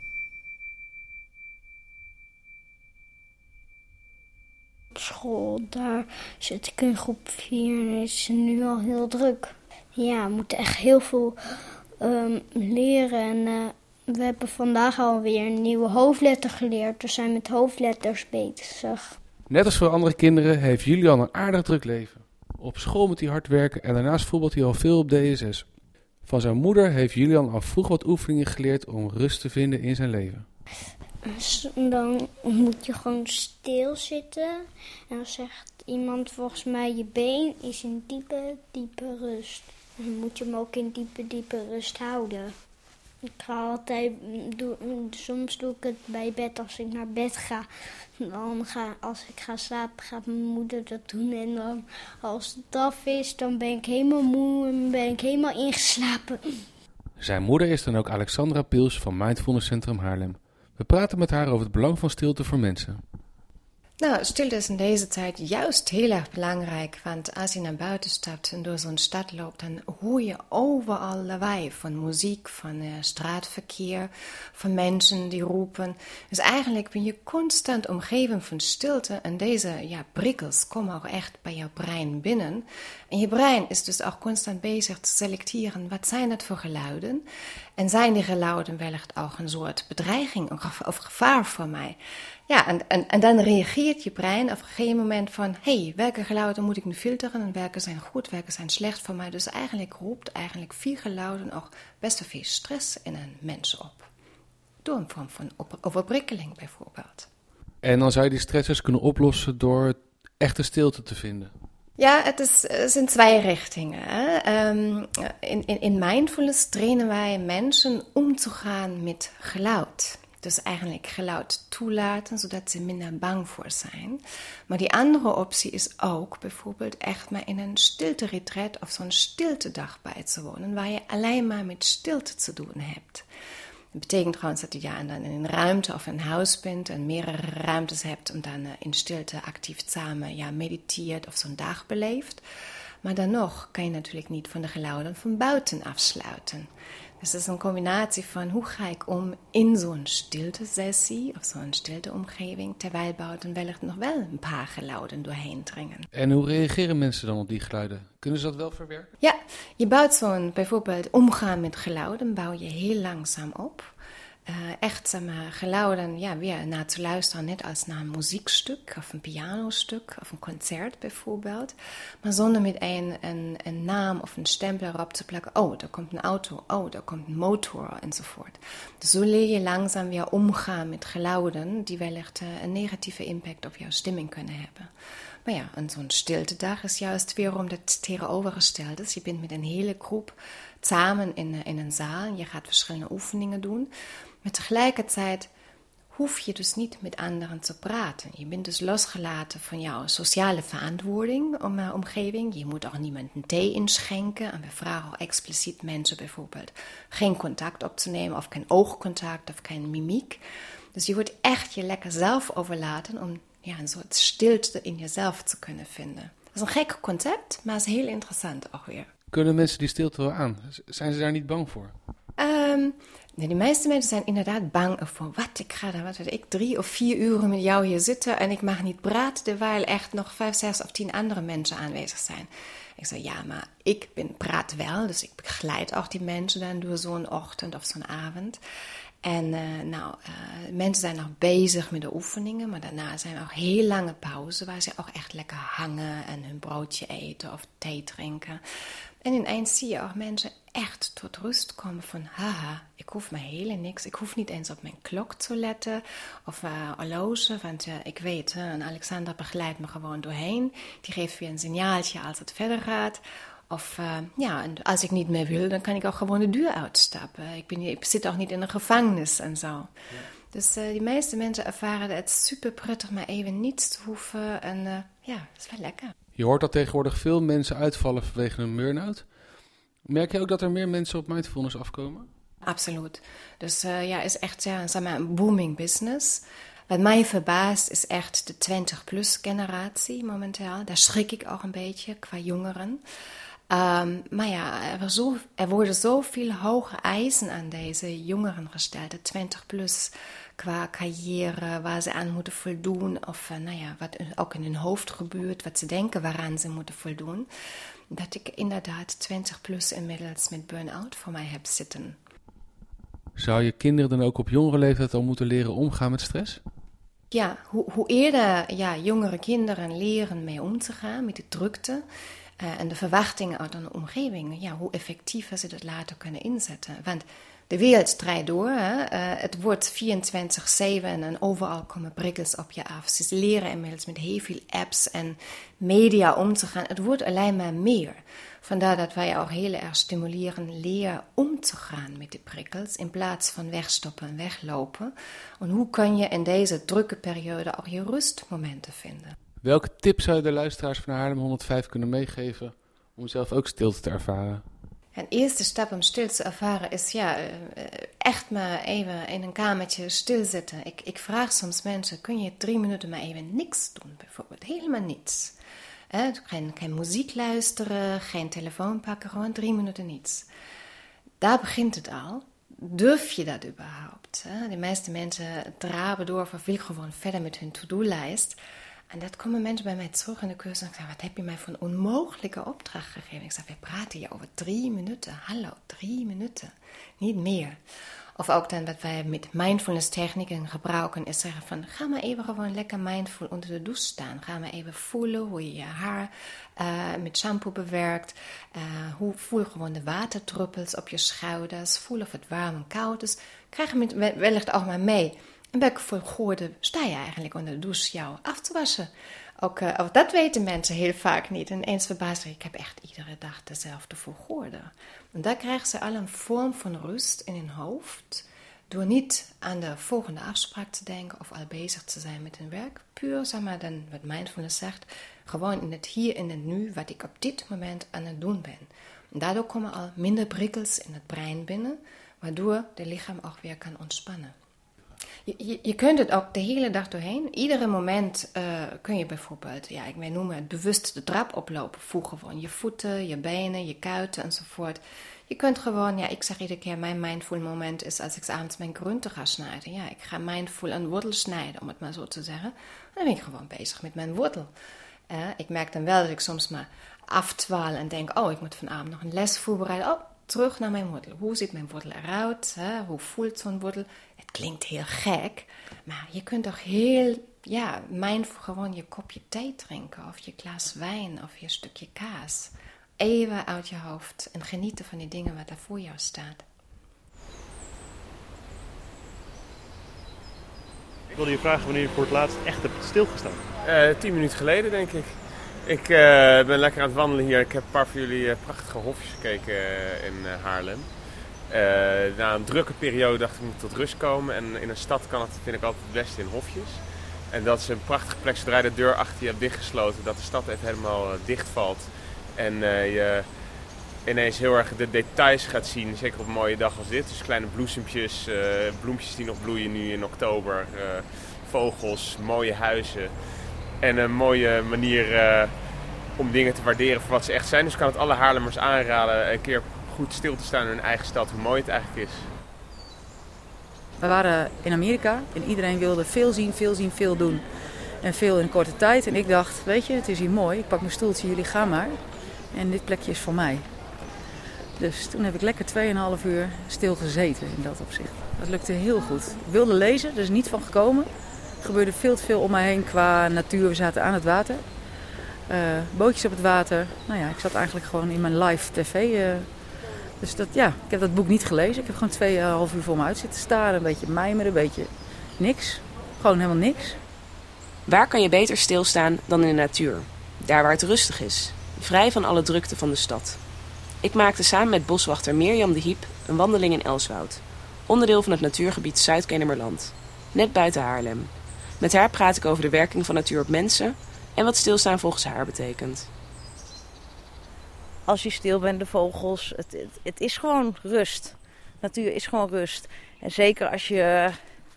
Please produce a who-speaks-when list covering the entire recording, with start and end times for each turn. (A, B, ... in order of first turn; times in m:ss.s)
0:05.0-0:11.3 A
0:12.1-0:13.6 A
0:14.2-0:19.1 A
0:19.5-0:25.7 B
0:26.2-0:30.5 B
0:31.4-0:34.5 A
0:35.1-0:42.5 A
0:43.4-0:47.7 A
0:48.2-0:56.4 A
0:57.2-1:03.0 B
1:04.0-1:27.3 C
1:27.8-1:32.0 C
1:32.5-1:44.1 C
1:44.8-1:47.3 C
1:47.8-1:51.5 B
1:52.0-2:13.3 C
2:13.9-2:22.4 C
2:23.0-2:26.7 C
2:27.2-2:36.0 C
2:36.1-2:39.1 B
2:39.2-2:43.9 C
2:44.5-3:04.9 C
3:05.4-3:13.9 C
3:14.4-3:15.5 C
3:16.1-3:30.4 C
3:31.0-3:39.1 C
3:39.3-3:41.9 B
3:42.4-3:58.6 C
3:59.2-4:08.6 C
4:09.2-4:29.9 C
4:30.5-4:36.1 C
4:36.4-4:39.4 B
4:40.0-4:42.3 B
4:42.6-4:53.0 C
4:53.7-5:07.5 C
5:08.1-5:12.2 C
5:13.4-5:16.6 B
5:17.3-5:22.0 C
5:22.6-5:49.3 C
5:49.6-5:54.6 B
5:55.1-6:05.6 C
6:06.1-6:10.5 C
6:11.4-6:18.6 C
6:19.1-6:27.8 C
6:28.4-7:14.5 C
7:15.5-7:34.7 C
7:35.3-7:56.6 C
8:01.4-8:03.6 D
8:03.8-8:23.7 E
8:24.2-8:33.4 E
8:34.0-8:42.5 E
8:44.2-8:47.6 F
8:48.2-8:52.2 F
8:52.7-8:53.9 F
8:55.0-9:01.3 F
9:01.8-9:04.8 F
9:05.7-9:09.7 F
9:10.4-9:17.2 F
9:18.1-9:23.6 G
9:24.2-9:36.3 G
9:38.3-9:44.6 H